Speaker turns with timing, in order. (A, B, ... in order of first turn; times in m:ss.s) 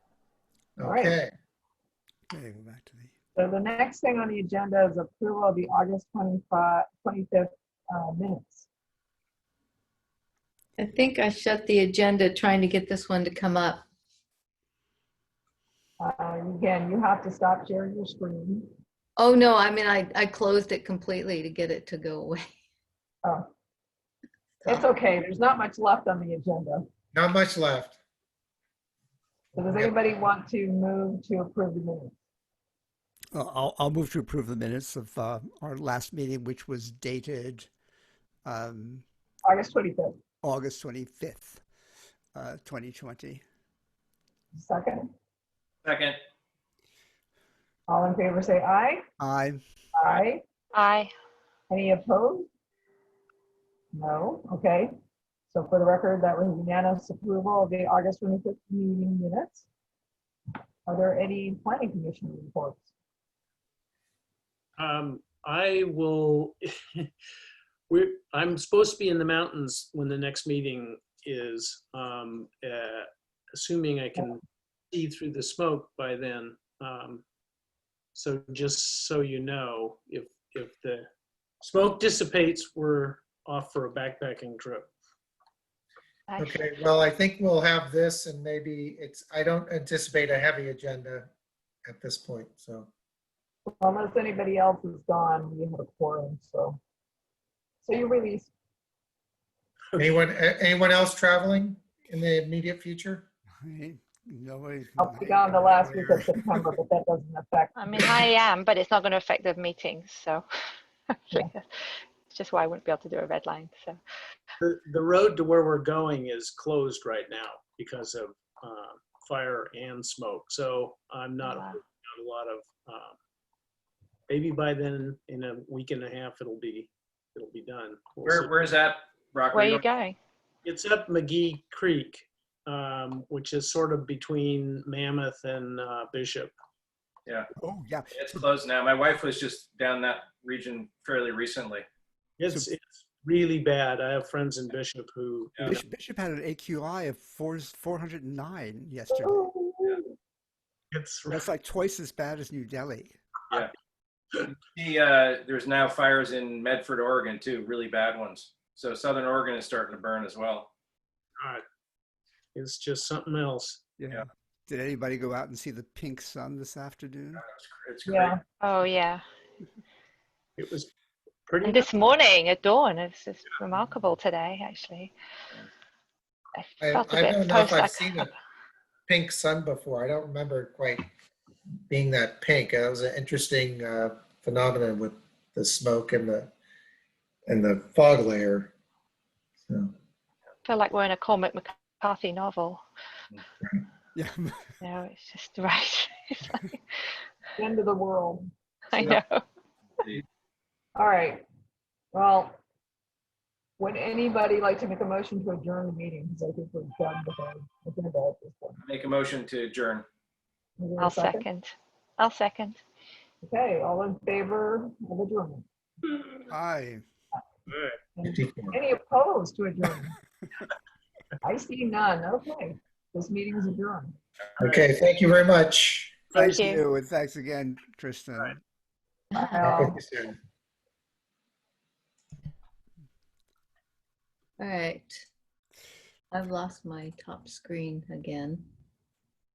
0:00.8-0:01.3 A
0:00.8-0:01.2 B
0:02.3-0:03.1 C
0:03.3-0:08.7 B
0:10.8-0:13.8 D
0:16.0-0:18.7 B
0:19.2-0:22.5 D
0:24.6-0:24.9 D
0:24.6-0:26.8 B
0:27.1-0:28.0 A
0:29.6-0:32.2 B
0:29.6-0:30.0 A
0:33.3-0:37.7 C
0:38.4-0:39.0 C
0:39.4-0:40.2 B
0:40.4-0:41.6 C
0:42.3-0:43.4 C
0:44.5-0:45.1 B
0:45.8-0:46.2 E
0:47.9-0:49.0 B
0:49.2-0:49.6 C
0:50.0-0:50.4 B
0:50.7-0:51.1 F
0:51.7-0:52.5 B
0:53.9-0:54.9 B
0:55.5-0:59.6 B
1:00.8-1:02.9 B
1:04.8-1:07.1 G
1:07.9-1:14.4 G
1:14.9-1:17.2 G
1:18.1-1:21.0 G
1:21.6-1:24.9 G
1:26.3-1:26.7 F
1:26.4-1:31.3 A
1:31.8-1:32.9 A
1:33.7-1:36.8 B
1:37.8-1:38.5 B
1:40.0-1:43.2 A
1:43.6-1:46.7 C
1:45.0-1:47.8 B
1:47.8-1:50.4 F
1:51.1-1:51.7 F
1:52.3-1:54.0 F
1:54.6-2:03.2 G
2:01.4-2:01.8 F
2:04.3-2:08.7 G
2:08.2-2:09.9 E
2:09.5-2:10.2 F
2:10.6-2:16.5 G
2:17.6-2:18.4 C
2:18.1-2:21.8 E
2:22.4-2:25.8 G
2:25.6-2:29.5 C
2:29.2-2:30.1 B
2:30.9-2:31.5 G
2:31.3-2:33.1 C
2:34.4-2:40.7 E
2:41.4-2:41.6 G
2:42.5-2:43.8 G
2:44.0-2:47.4 C
2:47.4-2:48.3 E
2:48.0-2:48.4 B
2:48.6-2:49.2 F
2:50.6-2:50.9 G
2:51.5-2:51.9 G
2:51.6-2:55.1 F
2:56.6-2:58.3 F
2:56.8-2:58.3 A
2:59.1-3:01.1 A
3:01.9-3:06.5 A
3:07.5-3:08.7 A
3:09.6-3:09.9 A
3:10.6-3:12.8 F
3:14.1-3:14.6 C
3:14.8-3:17.0 F
3:17.6-3:19.2 B
3:18.9-3:19.4 F
3:21.0-3:21.4 B
3:22.1-3:22.6 B
3:23.8-3:28.8 B
3:28.8-3:30.0 E
3:30.8-3:31.4 B
3:31.0-3:32.8 F
3:33.4-3:35.6 B
3:36.5-3:37.0 C
3:37.7-3:38.0 G
3:38.2-3:40.1 B
3:38.3-3:38.8 A
3:41.4-3:44.2 B
3:44.6-3:44.9 G
3:44.6-3:46.3 A
3:46.3-3:46.6 G
3:46.3-3:48.6 C
3:46.4-3:46.8 F
3:49.3-3:50.0 D
3:49.4-3:50.0 B
3:49.6-3:50.4 A
3:54.6-3:55.2 D
3:56.3-3:58.7 D